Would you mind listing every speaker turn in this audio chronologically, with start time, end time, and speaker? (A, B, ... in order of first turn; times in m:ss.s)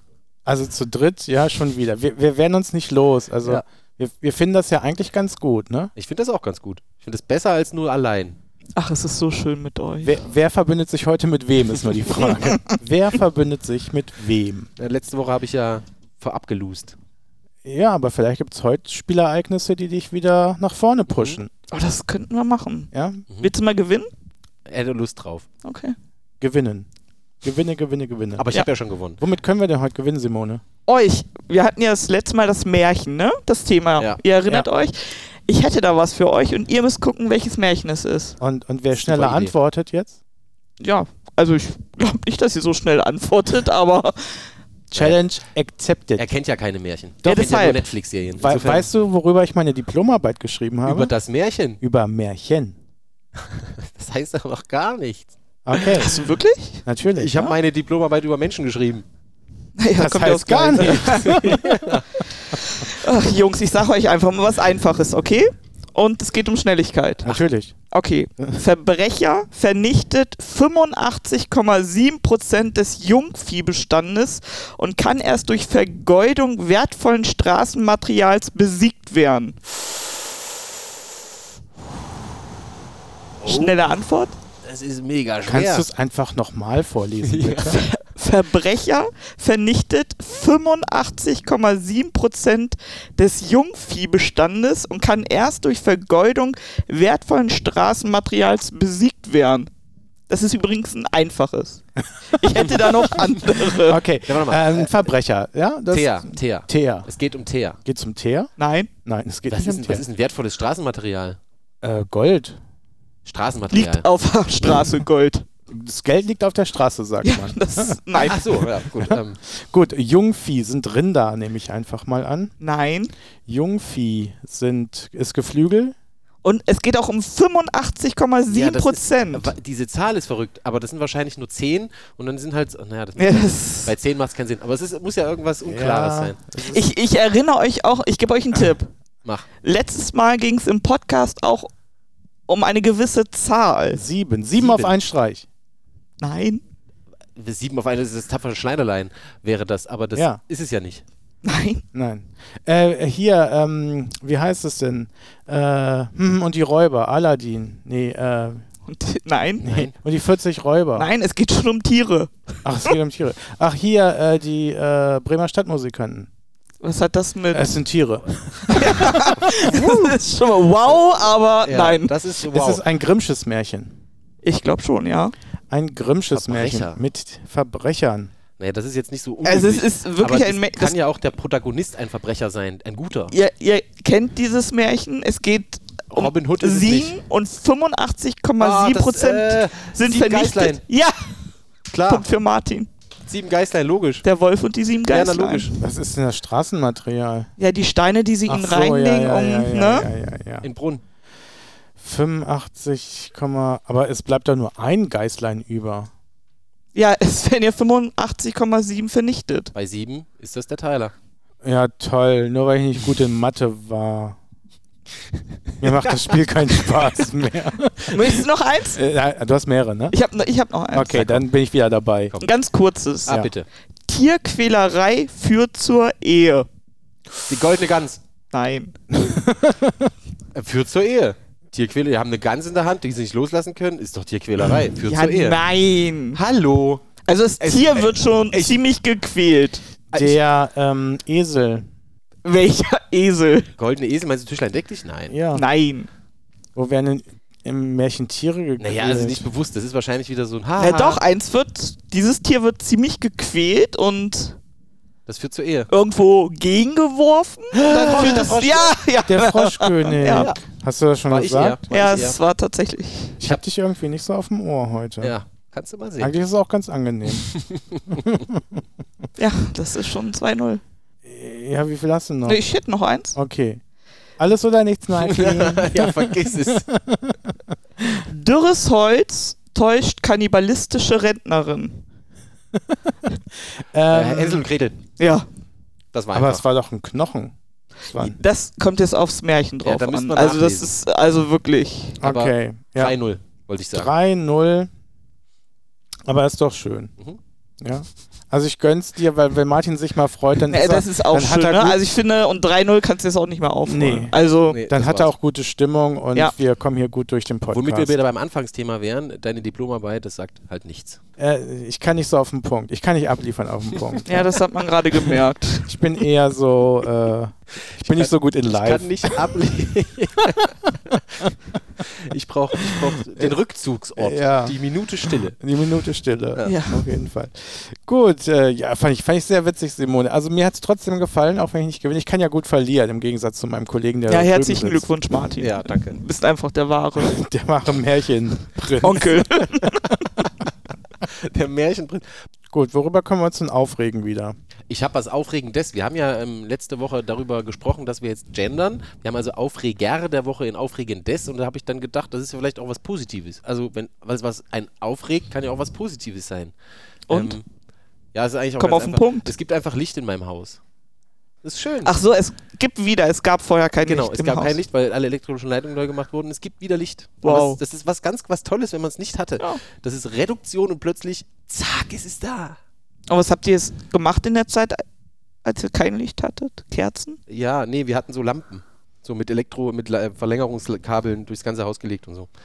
0:00.4-0:05.9 A
0:06.0-0:08.4 B
0:08.8-0:10.3 C
0:10.0-0:14.7 A
0:14.8-0:17.0 B
0:17.6-0:21.5 A
0:21.7-0:22.9 C
0:22.9-0:23.2 A
0:23.4-0:24.1 C
0:24.6-0:25.5 B
0:25.6-0:26.0 C
0:26.4-0:26.9 A
0:27.4-0:28.5 A
0:28.4-0:29.2 B
0:29.2-0:30.6 A
0:30.9-0:38.4 C
0:38.4-0:40.2 A
0:38.9-0:39.5 B
0:40.8-0:44.5 C
0:44.9-0:46.3 A
0:46.2-0:48.9 B
0:47.2-0:47.8 C
0:48.4-0:51.1 A
0:50.9-0:51.8 B
0:51.8-0:52.8 A
0:53.4-0:56.1 B
0:55.7-0:56.1 A
0:55.8-0:56.8 C
0:56.8-0:57.4 A
0:57.2-0:59.0 B
0:59.8-1:01.7 C
1:00.0-1:02.0 A
1:00.8-1:02.0 B
1:02.4-1:07.3 C
1:07.2-1:07.8 A
1:07.9-1:19.6 C
1:23.4-1:23.9 B
1:23.4-1:24.3 C
1:24.6-1:25.9 B
1:25.5-1:27.8 A
1:27.2-1:27.8 B
1:27.7-1:39.7 C
1:40.3-1:44.0 C
1:43.8-1:47.1 A
1:44.3-1:44.9 B
1:45.9-1:47.8 B
1:47.8-1:48.5 A
1:48.6-1:48.9 C
1:49.0-1:50.0 A
1:49.5-1:51.4 B
1:51.8-1:52.6 A
1:53.2-1:54.1 B
1:53.7-1:55.5 C
1:55.7-2:02.5 A
1:57.2-1:58.4 C
1:58.2-1:59.4 B
2:02.6-2:03.1 C
2:03.5-2:06.0 A
2:06.4-2:09.5 C
2:08.5-2:16.4 B
2:13.2-2:13.9 C
2:15.6-2:16.8 A
2:16.6-2:18.9 C
2:19.6-2:21.7 C
2:22.5-2:24.0 C
2:23.9-2:25.5 A
2:24.5-2:24.9 B
2:26.2-2:26.6 C
2:27.4-2:31.0 B
2:31.4-2:31.8 C
2:31.9-2:38.6 A
2:38.8-2:39.6 C
2:39.6-2:39.9 B
2:39.6-2:41.1 A
2:40.9-2:42.9 C
2:42.6-2:46.3 A
2:46.8-2:47.8 C
2:47.5-2:49.3 A
2:48.6-2:52.2 C
2:49.5-2:50.2 B
2:51.6-2:52.8 B
2:52.5-2:54.0 A
2:54.4-2:55.3 C
2:55.7-2:58.3 A
2:56.3-2:57.0 B
2:58.6-3:03.3 B
2:59.4-3:01.0 C
3:03.3-3:11.5 C
3:06.1-3:07.2 B
3:08.6-3:10.8 B
3:11.9-3:12.3 B
3:12.0-3:12.9 C
3:13.3-3:14.2 B
3:14.2-3:15.7 C
3:15.1-3:15.8 B
3:15.8-3:17.5 A
3:17.6-3:20.1 C
3:18.5-3:20.7 A
3:20.6-3:21.0 B
3:22.0-3:26.1 A
3:26.9-3:29.7 C
3:29.8-3:31.1 B
3:31.6-3:34.4 A
3:35.8-3:37.0 B
3:35.8-3:38.3 A
3:38.1-3:39.0 C
3:38.9-3:40.2 A
3:40.1-3:41.2 C
3:40.9-3:42.4 A
3:41.1-3:41.4 B
3:42.4-3:43.4 C
3:43.2-3:43.7 B
3:44.1-3:46.7 C
3:47.5-3:48.2 B
3:48.5-3:49.0 C
3:49.1-3:50.1 A
3:50.5-3:55.6 B
3:55.0-3:56.4 C
3:56.3-3:57.1 B
3:57.2-3:59.9 C
3:57.6-3:58.8 B
4:00.1-4:00.4 B
4:00.1-4:01.9 A
4:02.4-4:03.7 C
4:03.8-4:05.4 B
4:05.3-4:05.6 A
4:05.5-4:06.1 C
4:06.8-4:09.5 A
4:08.8-4:11.2 B
4:10.8-4:14.6 C
4:15.2-4:15.9 B
4:15.9-4:20.5 C
4:17.7-4:19.0 B
4:18.1-4:18.4 A
4:19.3-4:21.9 A
4:20.3-4:20.6 B
4:21.3-4:22.4 B
4:21.9-4:23.4 C
4:23.4-4:25.3 A
4:25.2-4:26.4 B
4:26.2-4:27.5 A
4:27.4-4:28.2 B
4:28.1-4:28.8 A
4:29.4-4:30.8 C
4:31.2-4:32.6 A
4:32.4-4:33.4 C
4:33.4-4:33.8 A
4:34.4-4:38.2 A
4:35.2-4:36.9 B
4:38.2-4:42.0 C
4:42.7-4:44.7 A
4:44.1-4:45.0 B
4:45.2-4:45.5 C
4:46.1-4:46.6 B
4:46.3-4:47.6 A
4:48.1-4:48.4 A
4:48.2-4:52.2 C
4:49.8-4:51.0 B
4:52.2-4:53.2 A
4:52.2-4:54.1 B
4:53.9-4:54.9 A
4:56.2-4:57.1 A
4:57.8-5:02.0 A
5:00.7-5:04.8 C
5:03.9-5:04.4 A
5:04.7-5:05.3 B
5:04.9-5:08.1 A
5:07.7-5:11.2 B
5:11.4-5:14.5 A
5:14.2-5:15.9 C
5:15.9-5:19.6 A
5:18.0-5:21.5 B
5:20.4-5:20.9 A
5:22.0-5:25.6 B
5:22.8-5:23.5 A
5:24.2-5:35.1 A
5:26.6-5:27.0 C
5:34.3-5:37.4 C
5:35.6-5:36.2 B
5:37.2-5:39.5 A
5:39.0-5:40.3 C
5:41.2-5:42.2 B
5:42.7-5:44.6 A
5:44.9-5:56.7 B
5:57.3-5:57.6 C
5:57.3-5:57.6 B
5:58.3-6:00.8 B
5:58.8-5:59.5 C
6:01.6-6:02.1 B
6:02.0-6:04.8 C
6:04.0-6:12.8 B
6:07.4-6:07.8 C
6:13.3-6:15.0 C
6:15.6-6:17.4 C
6:17.5-6:22.5 B